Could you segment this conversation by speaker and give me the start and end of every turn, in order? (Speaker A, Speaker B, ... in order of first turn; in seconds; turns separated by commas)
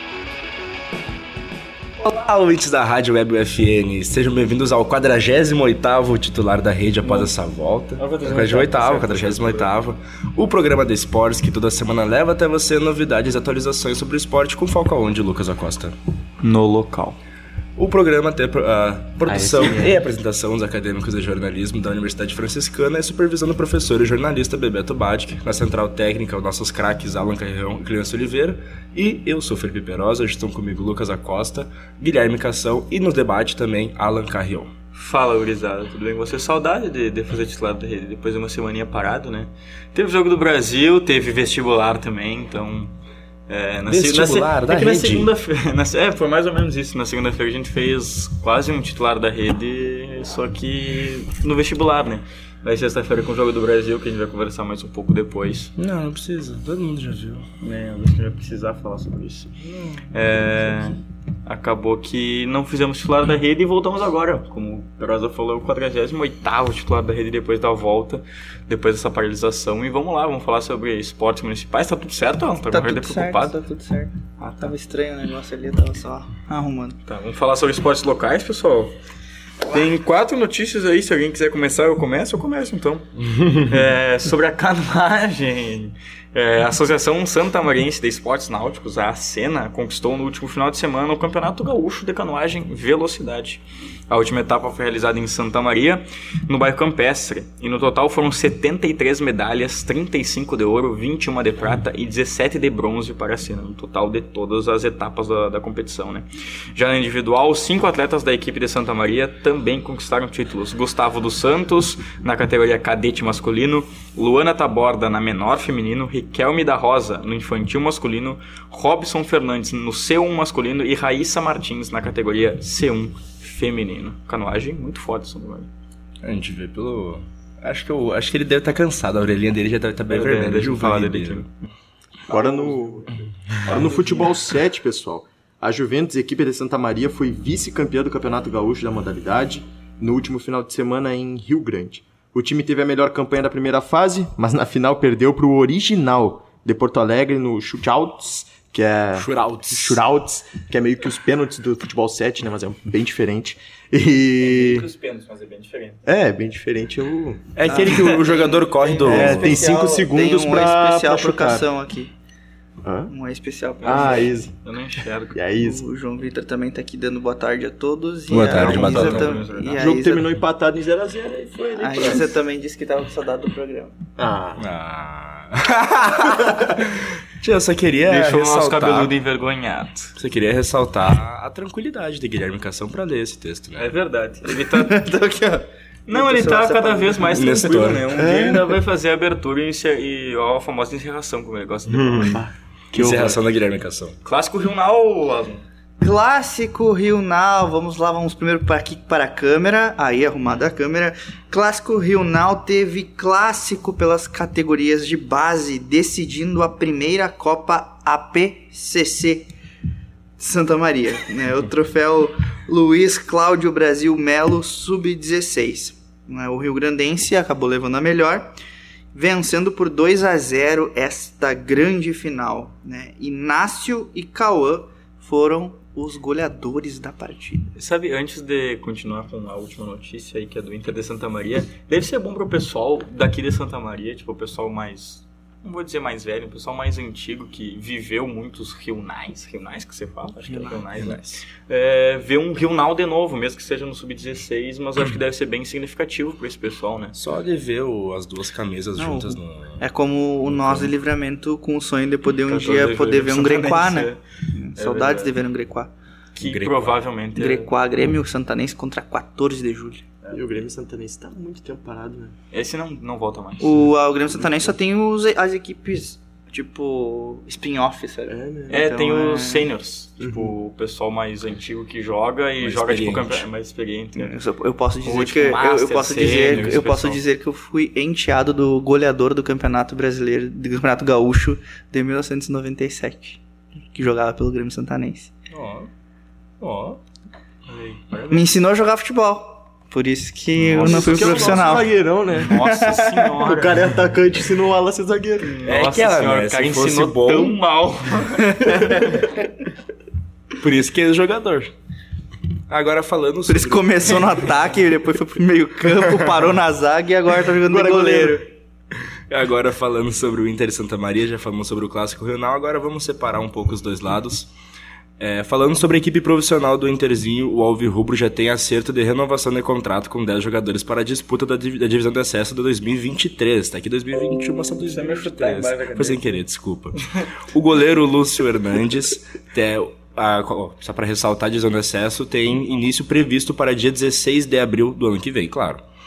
Speaker A: 2.0-15.9, Speaker B: 7.0-7.3, Speaker B: 8.0-9.7, Speaker B: 16.4-17.2, Speaker A: 17.8-34.7, Speaker C: 19.2-20.0, Speaker B: 34.9-42.9, Speaker B: 43.5-55.7, Speaker A: 43.9-45.3, Speaker A: 55.8-57.5, Speaker B: 57.6-59.5, Speaker A: 59.6-60.1, Speaker B: 60.1-73.6, Speaker D: 72.7-77.0, Speaker B: 74.4-74.7, Speaker B: 77.1-78.9, Speaker B: 79.7-125.7, Speaker A: 83.3-83.7, Speaker A: 126.2-131.4, Speaker B: 130.1-131.5, Speaker C: 132.3-133.1, Speaker D: 132.3-132.9, Speaker C: 133.7-154.9, Speaker B: 133.7-134.2, Speaker A: 149.1-150.0, Speaker B: 154.4-156.0, Speaker C: 156.1-157.4, Speaker A: 157.6-159.7, Speaker D: 157.7-162.1, Speaker B: 157.7-158.1, Speaker B: 158.8-159.9, Speaker C: 159.0-161.7, Speaker C: 162.8-163.1, Speaker D: 163.1-164.3, Speaker C: 163.8-164.5, Speaker B: 163.9-165.4, Speaker C: 165.3-165.8, Speaker D: 165.6-170.3, Speaker A: 168.3-169.3, Speaker B: 168.5-169.8, Speaker C: 169.8-172.4, Speaker D: 171.8-173.9, Speaker C: 174.2-174.7, Speaker A: 174.6-179.1, Speaker B: 178.1-180.1, Speaker A: 180.2-183.9, Speaker B: 183.8-185.1, Speaker D: 184.5-187.4, Speaker B: 186.1-192.4, Speaker A: 187.3-188.2, Speaker C: 188.1-188.8, Speaker A: 191.9-192.4, Speaker C: 192.3-193.4, Speaker A: 192.9-194.1, Speaker B: 194.2-195.6, Speaker D: 196.0-209.5, Speaker D: 210.4-218.5, Speaker D: 219.1-227.7, Speaker B: 227.8-247.2, Speaker A: 240.7-241.2, Speaker A: 247.1-249.8, Speaker D: 249.0-255.9, Speaker B: 252.5-254.2, Speaker B: 254.8-255.3, Speaker B: 256.3-257.7, Speaker A: 256.4-257.0, Speaker D: 257.3-260.1, Speaker C: 260.3-262.3, Speaker B: 262.5-263.9, Speaker D: 263.6-269.7, Speaker C: 264.3-264.7, Speaker C: 268.3-268.8, Speaker B: 268.7-274.4, Speaker C: 270.2-270.5, Speaker A: 272.6-273.5, Speaker D: 274.1-285.3, Speaker B: 275.0-277.2, Speaker A: 285.5-285.9, Speaker A: 286.6-287.0, Speaker B: 287.7-288.5, Speaker D: 288.3-293.3, Speaker B: 290.6-293.9, Speaker C: 290.8-292.6, Speaker C: 293.4-295.6, Speaker B: 295.4-299.2, Speaker A: 295.6-297.6, Speaker D: 298.5-299.3, Speaker A: 300.6-301.7, Speaker A: 302.7-304.5, Speaker D: 303.5-308.5, Speaker A: 306.0-306.2, Speaker C: 307.6-308.4, Speaker A: 309.3-314.5, Speaker A: 315.2-335.8, Speaker B: 324.9-326.4